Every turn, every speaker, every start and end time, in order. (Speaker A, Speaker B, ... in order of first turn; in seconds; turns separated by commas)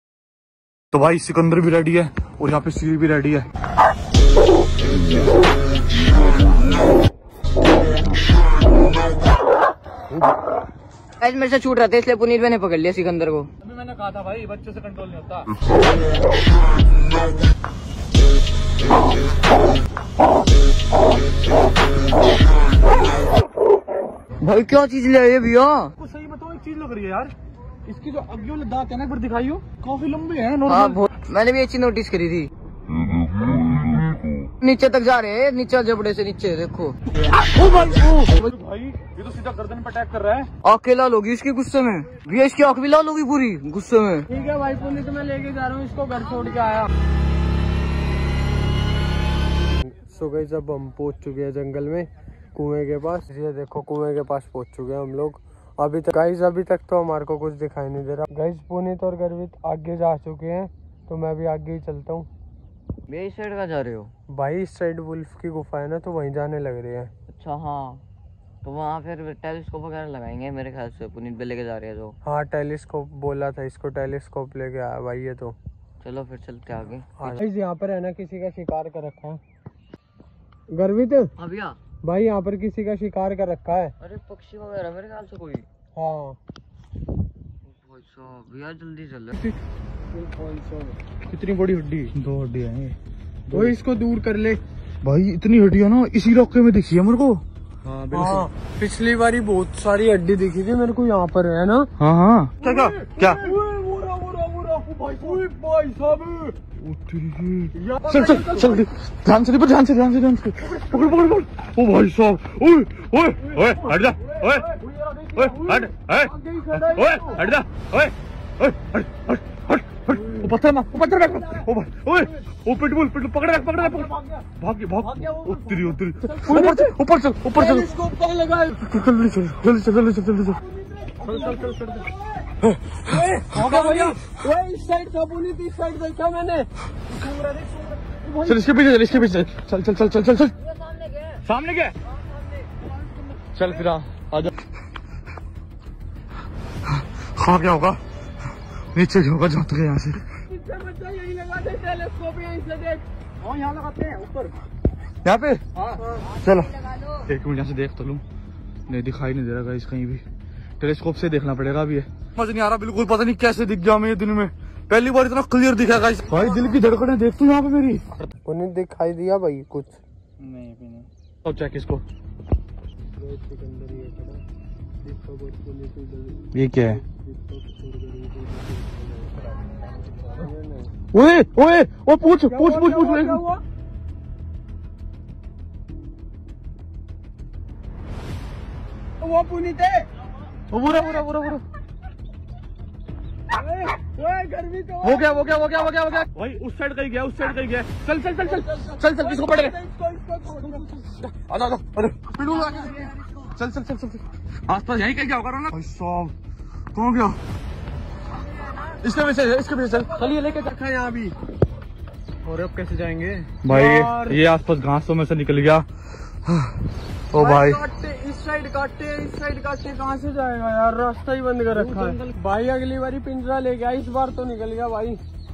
Speaker A: 0.9-3.5, Speaker B: 11.2-13.5, Speaker A: 13.6-15.5, Speaker B: 24.4-25.9, Speaker A: 26.0-27.3, Speaker A: 27.9-31.0, Speaker B: 30.6-32.5, Speaker B: 34.6-37.0, Speaker A: 37.4-40.5, Speaker B: 40.6-44.3, Speaker C: 44.3-46.9, Speaker C: 49.9-62.3, Speaker B: 63.1-64.1, Speaker C: 64.3-67.1, Speaker B: 67.3-68.0, Speaker B: 68.6-72.2, Speaker C: 72.2-75.5, Speaker B: 76.0-77.4, Speaker C: 77.2-79.4, Speaker C: 80.7-81.3, Speaker B: 81.4-81.8, Speaker C: 82.0-83.9, Speaker B: 84.0-85.7, Speaker C: 85.9-86.4, Speaker B: 87.7-89.4, Speaker C: 90.1-90.9, Speaker A: 91.3-93.0, Speaker A: 93.5-93.8, Speaker C: 93.5-94.6, Speaker A: 95.0-98.4, Speaker C: 98.1-101.9, Speaker A: 102.0-103.5, Speaker C: 102.6-106.5, Speaker A: 106.8-127.9, Speaker C: 107.8-108.8, Speaker C: 116.4-117.4, Speaker C: 126.3-126.9, Speaker C: 127.5-128.9, Speaker A: 128.8-130.6, Speaker C: 130.8-132.2, Speaker A: 131.2-131.7, Speaker A: 132.6-134.2, Speaker C: 133.1-136.7, Speaker C: 138.2-138.5, Speaker A: 138.4-140.5, Speaker B: 140.8-141.4, Speaker A: 141.4-141.9, Speaker A: 143.5-144.5, Speaker A: 146.9-148.0, Speaker A: 148.9-150.4, Speaker C: 150.5-153.0, Speaker A: 153.4-154.5, Speaker A: 155.2-158.2, Speaker A: 158.9-160.2, Speaker A: 160.8-168.2, Speaker C: 168.4-170.0, Speaker A: 170.4-172.0, Speaker C: 173.2-174.4, Speaker C: 175.0-179.6, Speaker A: 176.5-177.0, Speaker C: 180.2-180.9, Speaker A: 181.1-183.4, Speaker C: 182.4-183.6, Speaker C: 189.2-190.1, Speaker A: 190.7-191.6, Speaker C: 193.5-195.7, Speaker A: 195.0-199.8, Speaker C: 198.5-200.9, Speaker A: 200.6-206.3, Speaker A: 206.9-207.4, Speaker A: 209.0-210.2, Speaker C: 210.0-211.3, Speaker C: 212.4-214.4, Speaker A: 213.6-215.8, Speaker A: 217.3-217.8, Speaker C: 217.3-225.2